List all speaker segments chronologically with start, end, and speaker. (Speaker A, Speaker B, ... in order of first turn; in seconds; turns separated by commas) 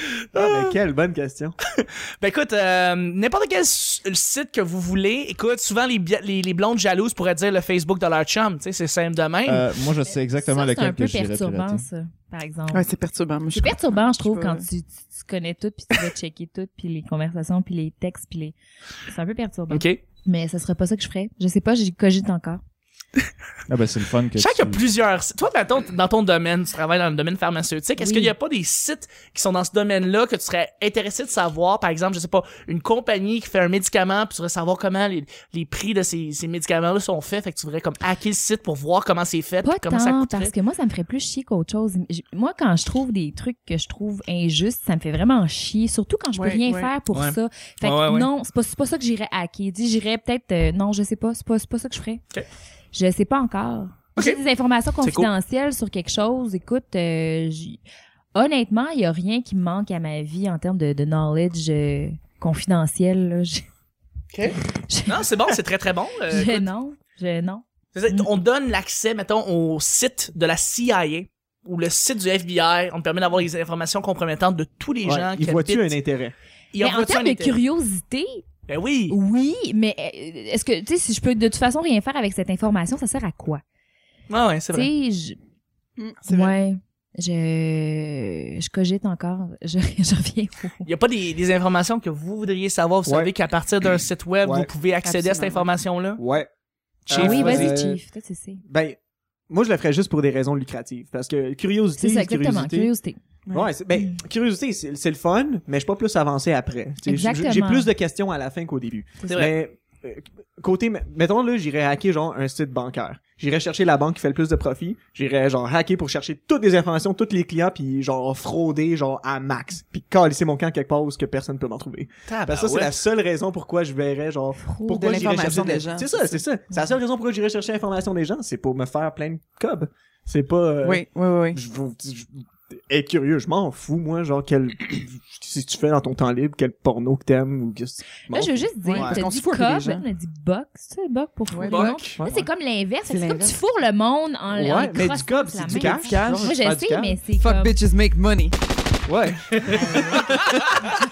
Speaker A: 0.3-1.6, Speaker B: 0.4-0.7, Speaker B: 1.8-9.7, Speaker C: 9.4-11.8, Speaker D: 10.1-12.8, Speaker E: 12.7-14.7, Speaker D: 13.5-18.5, Speaker D: 19.1-22.6, Speaker B: 19.7-20.0, Speaker C: 23.7-24.8, Speaker B: 24.4-40.5, Speaker D: 28.0-28.3, Speaker D: 39.6-52.2, Speaker E: 46.3-46.9, Speaker B: 47.1-48.3, Speaker D: 52.9-57.8, Speaker B: 55.0-55.3, Speaker D: 58.3-63.6, Speaker B: 64.3-66.7, Speaker D: 64.9-65.3, Speaker D: 66.3-68.3, Speaker B: 67.9-76.0, Speaker A: 75.0-76.3, Speaker B: 76.7-77.6, Speaker D: 76.8-78.4, Speaker B: 78.7-79.2, Speaker D: 79.1-83.6, Speaker B: 84.3-84.9, Speaker D: 84.7-85.4, Speaker E: 86.0-86.5, Speaker D: 86.3-90.9, Speaker B: 90.8-96.2, Speaker A: 93.0-93.3, Speaker A: 94.4-94.7, Speaker E: 95.0-95.7, Speaker A: 96.2-96.5, Speaker A: 97.1-98.0, Speaker B: 97.1-97.8, Speaker D: 97.1-98.6, Speaker A: 98.6-99.0, Speaker A: 99.5-102.9, Speaker D: 102.0-103.2, Speaker A: 103.5-139.2, Speaker D: 107.0-107.9, Speaker B: 122.3-123.0, Speaker D: 124.6-125.3, Speaker E: 124.9-126.4, Speaker E: 130.8-131.6, Speaker D: 138.3-147.8, Speaker E: 138.9-140.0, Speaker E: 141.5-142.0, Speaker B: 141.6-142.2, Speaker A: 142.1-142.5, Speaker A: 143.1-143.5, Speaker A: 144.5-147.2, Speaker E: 145.7-146.6, Speaker E: 147.3-148.6, Speaker A: 149.1-150.3, Speaker D: 149.7-150.3